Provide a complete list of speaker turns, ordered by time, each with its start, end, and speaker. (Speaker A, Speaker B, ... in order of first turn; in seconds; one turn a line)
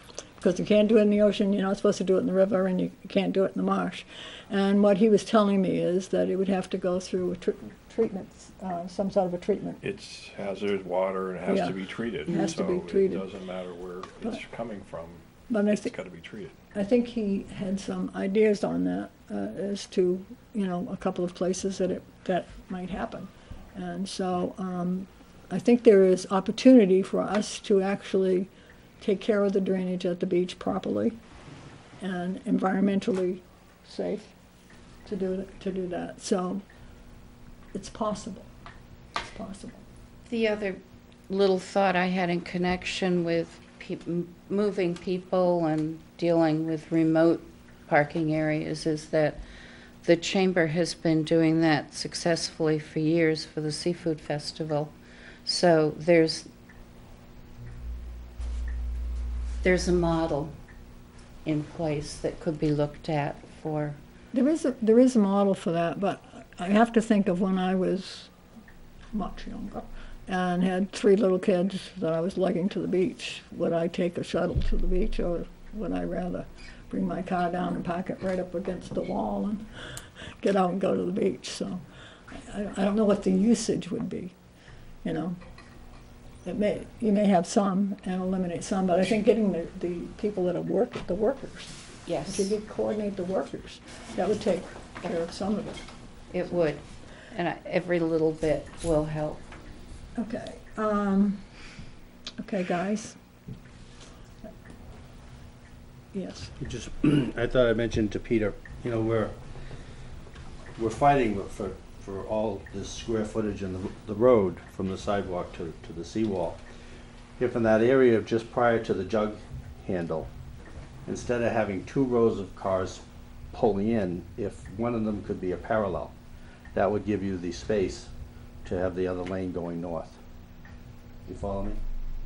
Speaker A: 0.4-9.8
Speaker B: 9.8-16.6
Speaker A: 11.4-13.2
Speaker A: 15.5-15.9
Speaker A: 16.7-31.2
Speaker A: 32.0-34.3
Speaker A: 35.0-36.6
Speaker A: 37.7-38.5
Speaker A: 39.3-39.8
Speaker C: 40.3-49.4
Speaker C: 50.0-54.9
Speaker C: 55.4-56.5
Speaker C: 59.6-60.5
Speaker C: 61.4-64.0
Speaker A: 64.3-68.3
Speaker A: 69.1-79.7
Speaker A: 80.4-81.8
Speaker A: 82.4-84.3
Speaker A: 85.0-85.4
Speaker A: 86.4-95.8
Speaker C: 92.0-92.5
Speaker C: 96.3-99.4
Speaker A: 100.2-101.4
Speaker A: 102.4-103.2
Speaker A: 106.1-106.5
Speaker D: 106.6-109.4
Speaker D: 110.8-116.6
Speaker D: 117.4-120.3
Speaker D: 121.0-126.1
Speaker D: 126.7-128.1
Speaker D: 128.6-130.2
Speaker D: 131.2-131.8